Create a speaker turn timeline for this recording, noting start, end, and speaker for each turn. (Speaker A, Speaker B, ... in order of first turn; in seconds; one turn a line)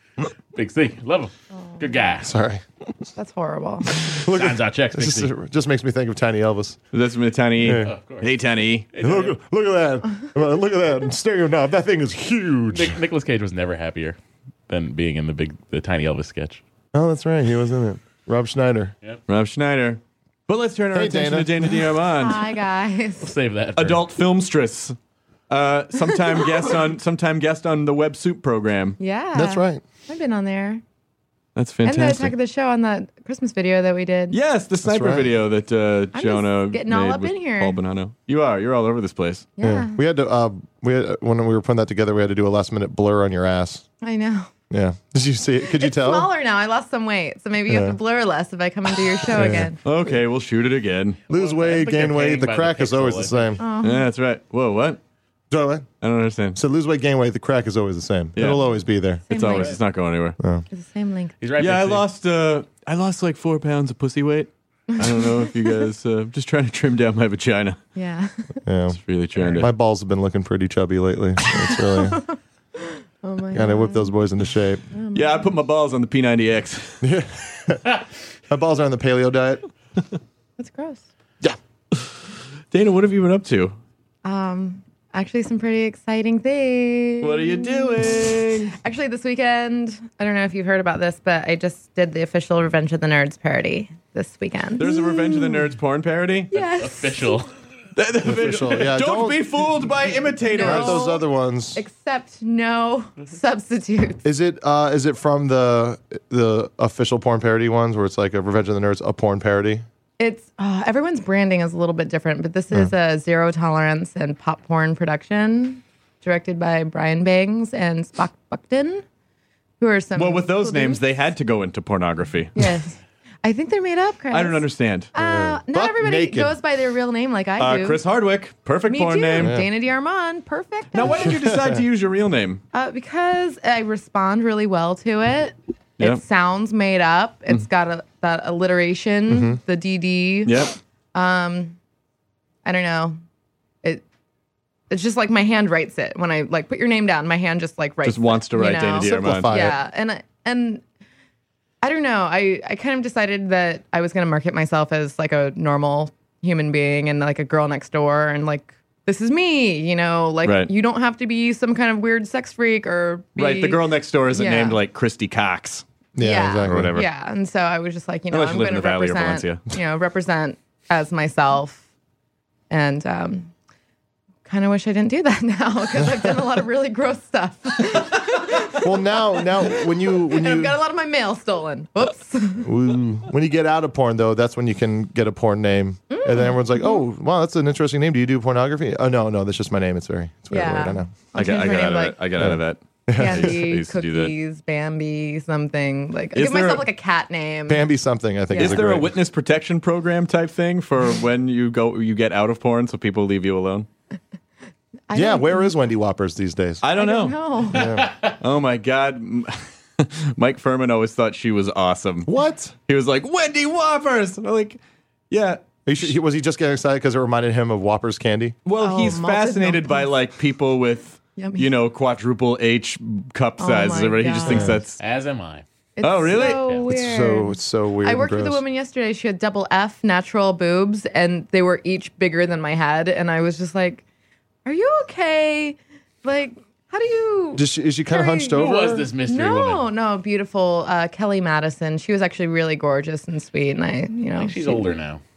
Speaker A: 0.5-2.3
Speaker B: 1.5-1.8
Speaker C: 2.2-2.6
Speaker B: 3.1-3.9
Speaker C: 4.0-6.8
Speaker A: 4.2-5.3
Speaker D: 6.9-8.9
Speaker C: 7.6-7.9
Speaker A: 7.7-8.3
Speaker A: 8.9-9.3
Speaker C: 9.0-13.0
Speaker A: 12.7-14.2
Speaker A: 14.7-16.6
Speaker C: 16.9-18.9
Speaker D: 19.3-22.4
Speaker C: 20.9-21.8
Speaker B: 22.1-23.3
Speaker A: 23.2-24.0
Speaker D: 23.8-24.9
Speaker D: 25.5-29.0
Speaker B: 29.0-30.8
Speaker C: 29.3-29.8
Speaker D: 31.6-32.3
Speaker B: 31.8-34.4
Speaker D: 34.3-39.5
Speaker C: 34.8-35.3
Speaker B: 36.1-37.8
Speaker B: 39.6-40.0
Speaker C: 39.6-43.8
Speaker B: 44.0-44.5
Speaker C: 44.7-46.3
Speaker B: 45.6-49.8
Speaker C: 47.7-48.0
Speaker C: 49.3-49.7
Speaker D: 49.8-51.2
Speaker A: 51.3-53.6
Speaker C: 51.3-53.6
Speaker B: 53.6-54.0
Speaker D: 53.8-55.0
Speaker C: 55.5-55.9
Speaker D: 56.0-56.6
Speaker C: 56.5-59.3
Speaker D: 58.3-58.6
Speaker B: 59.3-59.8
Speaker D: 59.3-60.4
Speaker B: 60.7-61.3
Speaker A: 61.4-62.0
Speaker D: 61.6-67.8
Speaker B: 64.9-65.8
Speaker B: 67.9-68.6
Speaker C: 68.7-69.0
Speaker D: 69.0-69.7
Speaker C: 69.5-72.2
Speaker B: 71.6-74.1
Speaker C: 73.5-74.8
Speaker B: 74.9-75.5
Speaker D: 75.1-77.1
Speaker C: 77.0-77.8
Speaker C: 78.5-79.6
Speaker B: 80.6-81.0
Speaker D: 82.7-83.7
Speaker B: 84.2-88.1
Speaker D: 87.2-88.7
Speaker B: 88.8-95.7
Speaker D: 94.8-96.5
Speaker B: 96.5-97.4
Speaker A: 96.6-97.5
Speaker D: 98.0-101.0
Speaker C: 98.2-99.4
Speaker B: 100.5-104.2
Speaker C: 100.6-101.8
Speaker C: 104.2-109.8
Speaker B: 110.2-119.0
Speaker B: 119.8-121.0
Speaker D: 120.2-122.5
Speaker B: 122.5-128.0
Speaker D: 124.3-125.1
Speaker C: 125.1-126.5
Speaker D: 127.6-129.6
Speaker B: 128.9-131.3
Speaker C: 129.4-129.7
Speaker D: 130.9-132.6
Speaker C: 131.1-131.8
Speaker B: 132.7-140.6
Speaker C: 139.3-139.6
Speaker D: 140.4-140.7
Speaker B: 141.1-141.8
Speaker B: 142.6-143.2
Speaker B: 144.9-150.8
Speaker D: 148.0-149.6
Speaker C: 148.9-149.8
Speaker B: 151.8-163.8
Speaker D: 160.4-160.7
Speaker D: 163.4-165.8
Speaker B: 164.3-164.8
Speaker C: 166.2-167.0
Speaker B: 166.2-171.8
Speaker D: 166.7-167.1
Speaker D: 168.3-169.6
Speaker B: 172.7-173.5
Speaker B: 174.4-182.7
Speaker C: 176.0-176.3
Speaker C: 178.8-180.8
Speaker C: 182.6-191.1
Speaker B: 186.1-187.0
Speaker B: 190.5-192.2
Speaker D: 191.3-194.3
Speaker C: 192.4-193.6
Speaker B: 193.2-197.9
Speaker D: 196.3-196.8
Speaker C: 197.7-199.1
Speaker B: 198.5-198.8
Speaker D: 198.5-203.9
Speaker B: 205.1-205.7
Speaker C: 205.1-206.8
Speaker D: 206.8-207.3
Speaker B: 206.9-207.9
Speaker C: 207.7-208.1
Speaker A: 207.9-208.3
Speaker D: 208.2-212.3
Speaker C: 212.2-212.7
Speaker D: 212.9-214.8
Speaker D: 215.3-216.1
Speaker C: 215.8-218.6
Speaker D: 218.6-225.0
Speaker B: 218.8-220.1
Speaker B: 221.4-221.7
Speaker B: 223.6-224.7
Speaker C: 224.5-224.8
Speaker A: 225.0-225.6
Speaker B: 225.9-234.0
Speaker D: 226.0-226.7
Speaker A: 226.4-226.8
Speaker C: 226.8-228.6
Speaker B: 234.6-244.8
Speaker C: 237.6-239.1
Speaker A: 238.6-239.9
Speaker A: 244.3-245.2